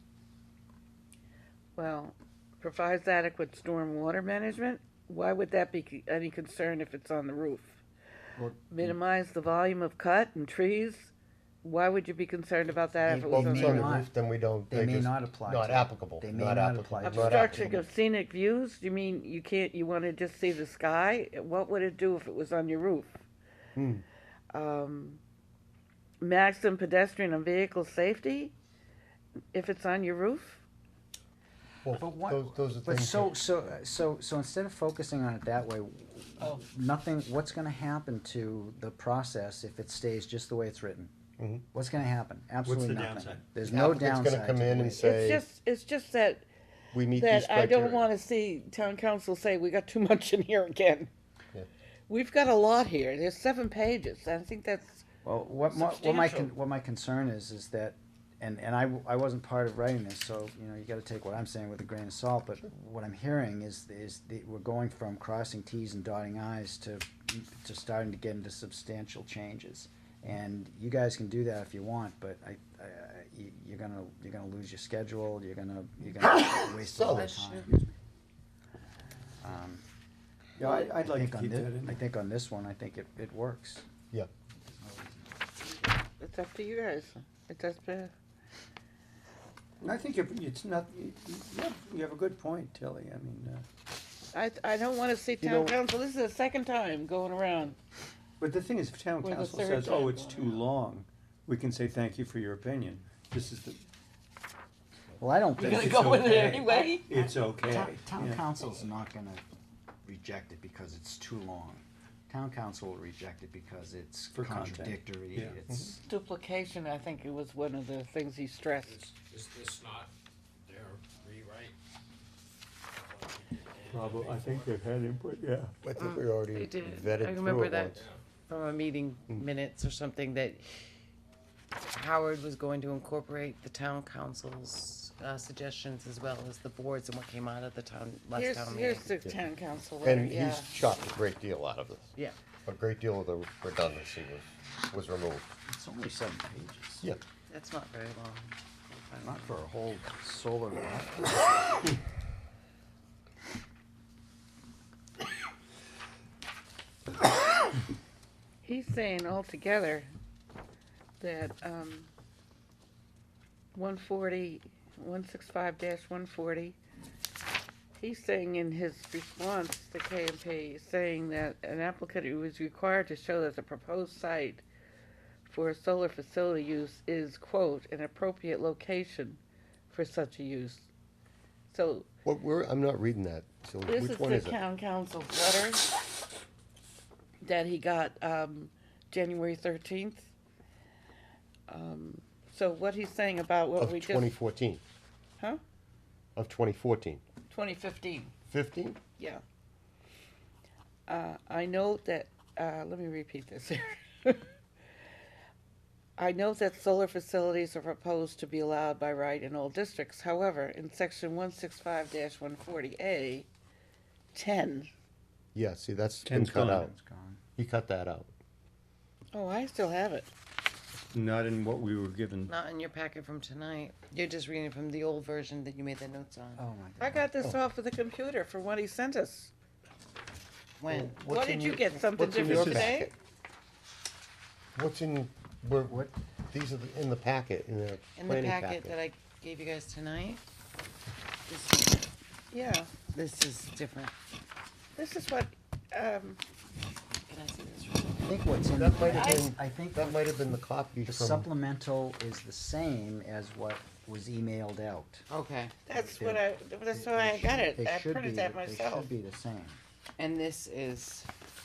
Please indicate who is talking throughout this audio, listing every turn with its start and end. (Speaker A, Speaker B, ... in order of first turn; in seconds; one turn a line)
Speaker A: 1.8-7.8
Speaker B: 8.3-9.0
Speaker A: 8.7-11.1
Speaker A: 11.6-13.9
Speaker B: 13.1-14.1
Speaker C: 13.1-17.7
Speaker B: 14.7-17.8
Speaker A: 17.0-23.2
Speaker C: 23.8-24.0
Speaker A: 24.5-25.2
Speaker A: 26.2-28.5
Speaker A: 29.5-30.6
Speaker C: 31.8-33.4
Speaker B: 32.0-41.1
Speaker C: 41.4-41.6
Speaker B: 41.7-45.3
Speaker D: 42.6-43.4
Speaker C: 43.6-45.4
Speaker A: 45.0-46.5
Speaker C: 46.9-48.1
Speaker A: 47.1-51.1
Speaker A: 52.1-55.0
Speaker B: 55.2-77.8
Speaker A: 55.6-56.5
Speaker C: 76.6-77.3
Speaker E: 77.1-77.7
Speaker B: 79.4-79.8
Speaker D: 80.6-82.0
Speaker B: 80.7-83.8
Speaker B: 84.6-85.5
Speaker A: 86.2-88.1
Speaker D: 89.8-93.6
Speaker A: 94.3-97.8
Speaker C: 95.4-95.8
Speaker D: 98.4-103.8
Speaker A: 99.2-100.6
Speaker B: 105.2-106.4
Speaker D: 105.6-108.5
Speaker A: 105.7-107.4
Speaker B: 107.6-109.4
Speaker B: 110.0-116.0
Speaker D: 114.3-115.5
Speaker A: 116.0-119.0
Speaker F: 118.9-120.1
Speaker F: 120.7-121.7
Speaker F: 123.7-124.7
Speaker D: 123.9-125.7
Speaker C: 125.8-128.1
Speaker E: 126.0-130.7
Speaker E: 131.9-139.1
Speaker A: 138.3-140.8
Speaker C: 140.0-145.5
Speaker B: 145.7-147.1
Speaker E: 147.5-149.6
Speaker B: 149.2-151.4
Speaker A: 158.6-160.1
Speaker A: 161.2-162.1
Speaker A: 163.7-166.8
Speaker A: 167.9-174.6
Speaker A: 175.5-180.9
Speaker A: 181.7-182.1
Speaker C: 182.2-184.6
Speaker A: 183.9-185.9
Speaker A: 187.4-190.3
Speaker A: 191.7-194.3
Speaker C: 193.8-194.8
Speaker C: 196.3-197.2
Speaker A: 197.5-198.3
Speaker C: 198.5-199.0
Speaker A: 201.1-204.5
Speaker A: 206.2-213.5
Speaker A: 214.3-214.9
Speaker C: 215.5-216.9
Speaker D: 216.2-216.8
Speaker B: 216.5-217.4
Speaker C: 217.6-218.3
Speaker A: 219.3-220.3
Speaker D: 221.1-222.5
Speaker E: 222.4-226.6
Speaker B: 226.6-227.3
Speaker A: 227.0-229.5
Speaker E: 230.8-231.2
Speaker C: 230.9-233.1
Speaker A: 231.2-233.1
Speaker D: 232.5-232.9
Speaker C: 234.7-238.9
Speaker E: 238.2-240.4
Speaker A: 241.5-242.0
Speaker A: 242.5-243.0
Speaker E: 243.1-244.1
Speaker A: 244.9-246.4
Speaker E: 247.3-248.3
Speaker B: 248.2-250.3
Speaker C: 248.8-251.5
Speaker A: 249.1-249.4
Speaker B: 251.0-255.2
Speaker E: 255.3-255.7
Speaker A: 255.9-259.1
Speaker B: 255.9-259.8
Speaker E: 260.2-261.3